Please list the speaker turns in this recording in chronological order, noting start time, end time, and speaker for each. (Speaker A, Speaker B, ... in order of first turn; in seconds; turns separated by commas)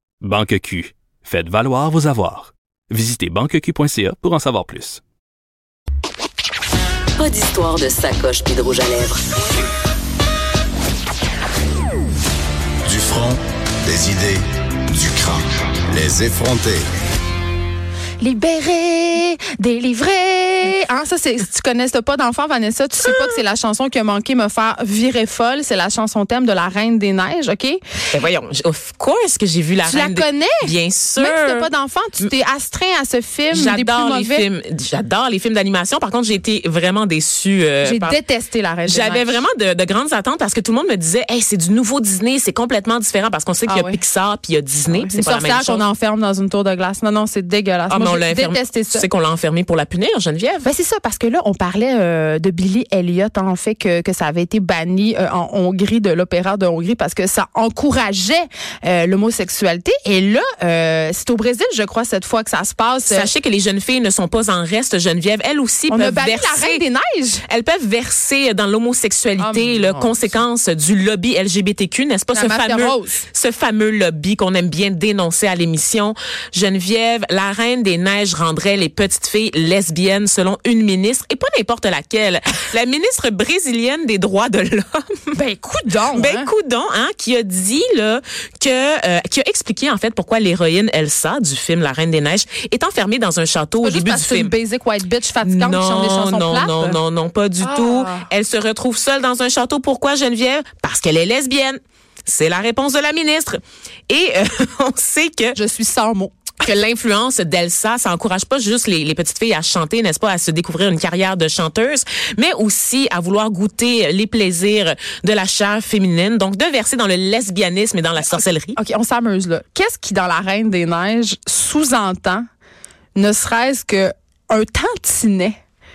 Speaker A: 0.2-5.0, Speaker B: 7.2-9.3, Speaker C: 12.9-16.8, Speaker D: 18.2-27.8, Speaker E: 28.1-31.7, Speaker D: 29.8-34.5, Speaker E: 33.5-38.2, Speaker D: 37.8-39.4, Speaker E: 38.9-45.8, Speaker D: 43.7-44.0, Speaker D: 44.9-49.1, Speaker E: 47.9-50.7, Speaker D: 50.6-63.3, Speaker E: 63.1-66.8, Speaker D: 65.9-67.4, Speaker E: 67.5-85.3, Speaker D: 69.4-70.4, Speaker D: 72.3-73.2, Speaker D: 85.3-86.5, Speaker E: 86.1-94.5, Speaker D: 93.8-97.0, Speaker E: 95.4-105.6, Speaker D: 97.6-98.3, Speaker D: 105.5-106.3, Speaker E: 106.6-118.8, Speaker D: 118.3-122.5, Speaker D: 123.2-125.6